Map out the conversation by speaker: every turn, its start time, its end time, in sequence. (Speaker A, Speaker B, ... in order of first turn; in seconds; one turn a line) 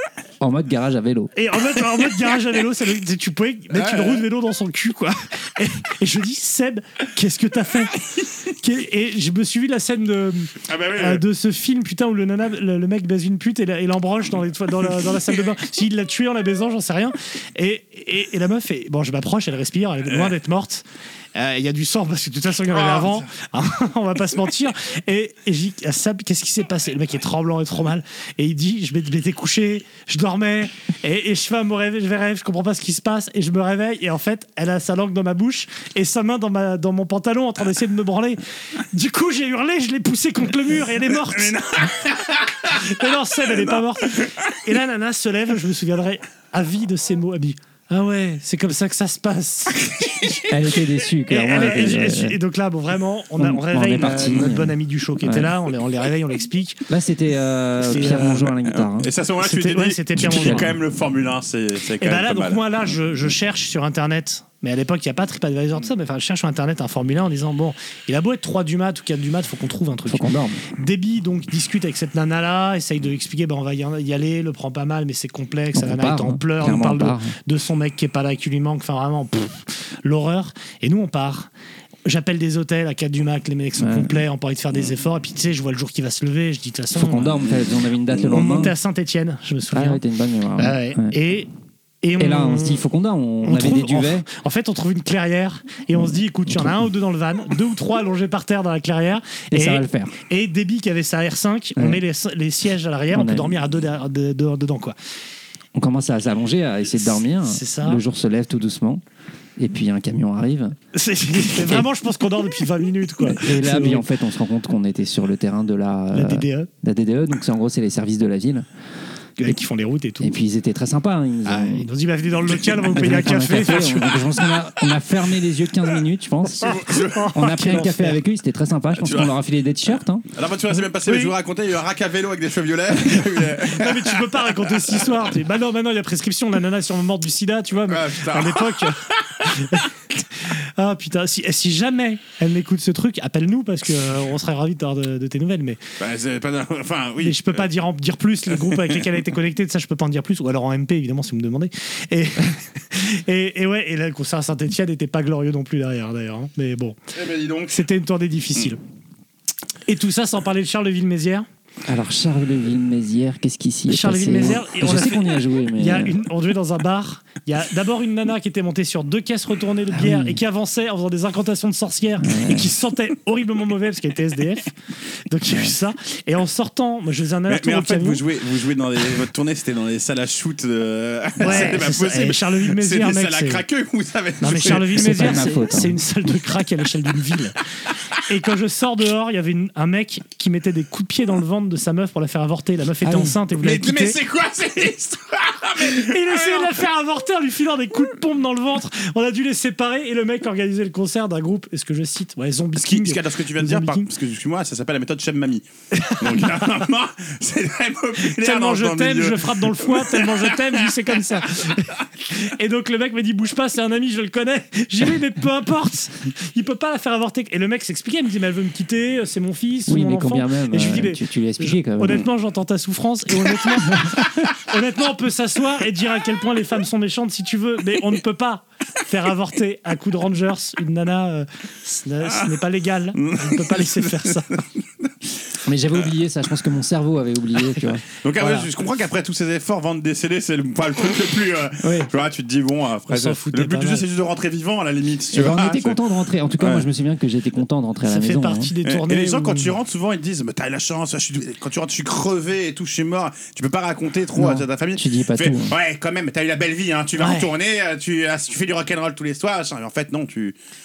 Speaker A: 0.4-1.3
Speaker B: 1.4-41.6
Speaker C: 3.7-4.2
Speaker C: 10.7-11.2
Speaker C: 22.7-23.3
Speaker C: 41.2-42.9
Speaker B: 42.7-49.9
Speaker C: 43.5-44.3
Speaker C: 50.0-50.4
Speaker A: 50.5-52.4
Speaker B: 51.3-56.8
Speaker A: 53.4-55.5
Speaker A: 56.9-59.1
Speaker B: 57.8-58.5
Speaker C: 58.0-62.6
Speaker B: 59.4-60.7
Speaker A: 60.2-60.8
Speaker B: 62.0-81.5
Speaker A: 70.1-70.6
Speaker A: 75.7-77.3
Speaker B: 82.1-87.5
Speaker A: 83.8-84.2
Speaker A: 86.9-88.8
Speaker B: 88.2-90.0
Speaker A: 89.7-91.1
Speaker B: 90.6-91.5
Speaker B: 92.0-92.8
Speaker A: 92.2-94.3
Speaker B: 93.4-105.0
Speaker A: 96.0-96.8
Speaker A: 99.5-100.1
Speaker A: 101.8-102.0
Speaker A: 103.1-103.5
Speaker A: 105.8-109.0
Speaker B: 107.0-108.0
Speaker A: 109.6-110.8
Speaker B: 110.9-114.1
Speaker A: 111.5-111.9
Speaker A: 113.2-118.7
Speaker B: 116.1-116.7
Speaker B: 119.4-120.3
Speaker A: 120.2-121.9
Speaker B: 121.5-124.2
Speaker A: 122.8-130.3
Speaker C: 126.6-127.3
Speaker B: 126.6-128.2
Speaker C: 129.0-129.3
Speaker C: 130.3-135.0
Speaker B: 131.1-131.3
Speaker B: 133.7-145.8
Speaker C: 137.9-139.7
Speaker C: 146.0-147.6
Speaker B: 147.2-157.0
Speaker C: 148.7-149.0
Speaker C: 157.1-157.8
Speaker B: 157.7-158.8
Speaker B: 159.9-161.5
Speaker A: 161.9-166.2
Speaker B: 163.9-174.7
Speaker A: 169.9-170.4
Speaker A: 172.2-172.7
Speaker B: 175.3-178.2
Speaker A: 175.5-175.7
Speaker C: 177.5-185.1
Speaker B: 181.4-183.6
Speaker B: 184.4-187.6
Speaker A: 184.8-186.0
Speaker B: 188.3-194.2
Speaker A: 193.0-193.4
Speaker C: 193.6-196.8
Speaker B: 195.8-204.1
Speaker C: 202.8-210.9
Speaker B: 205.9-206.6
Speaker B: 208.2-234.6
Speaker A: 219.9-222.3
Speaker C: 233.2-235.1
Speaker A: 235.6-238.7
Speaker C: 238.2-246.0
Speaker B: 243.1-244.1
Speaker A: 245.3-248.7
Speaker C: 246.6-246.9
Speaker B: 248.0-249.7
Speaker C: 248.8-260.6
Speaker A: 254.4-255.8
Speaker B: 257.2-257.5